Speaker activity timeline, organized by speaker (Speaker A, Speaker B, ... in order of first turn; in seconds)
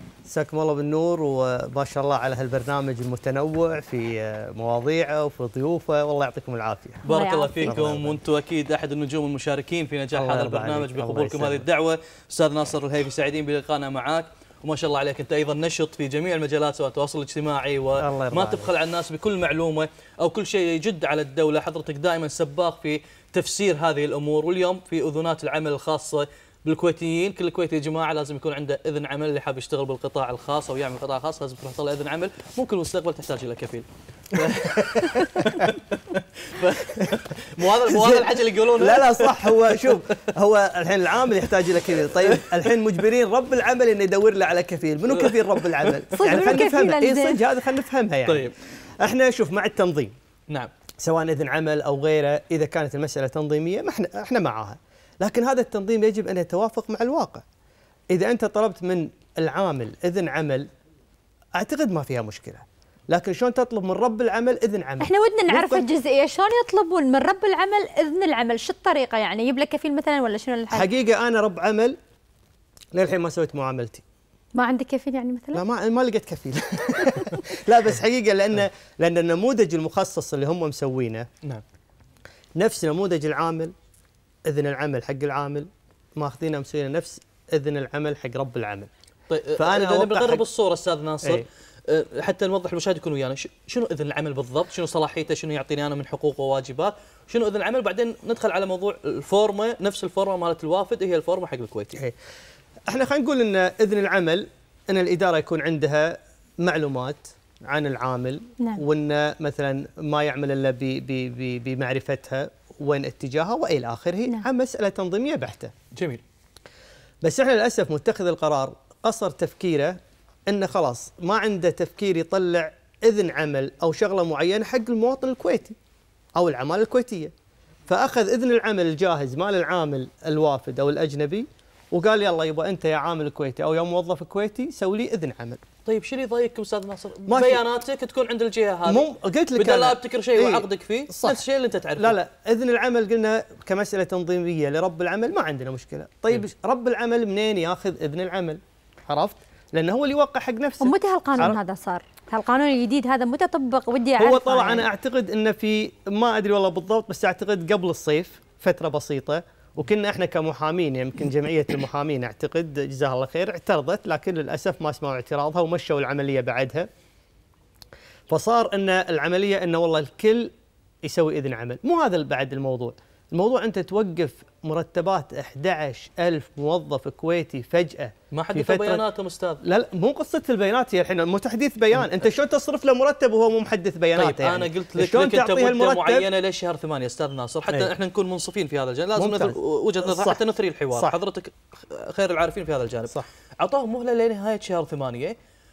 Speaker A: 0.2-7.0, 7.6-8.1, 10.1-11.6, 18.0-18.7, 34.8-35.5, 37.9-50.1, 51.0-57.4, 58.1-60.7, 61.6-65.8, 70.7-72.0, 72.9-74.0, 75.5-81.3, 82.6-83.7, 84.5-88.9, 89.6-90.4, 102.9-115.7, 117.2-125.8, 126.4-127.3, 127.9-135.6, 137.3-137.6, 138.8-141.4, 142.0-151.6, 154.2-166.9, 168.3-170.5, 171.1-179.0, 179.6-186.2, 189.2-190.4
Speaker B: 7.0-40.0, 45.1-46.6, 48.2-48.5, 89.3-102.0, 115.9-116.2, 135.8-142.2, 178.3-179.6, 184.2-195.3
Speaker C: 7.1-7.7, 46.1-47.4, 65.0-70.9, 74.5-75.6, 150.8-154.8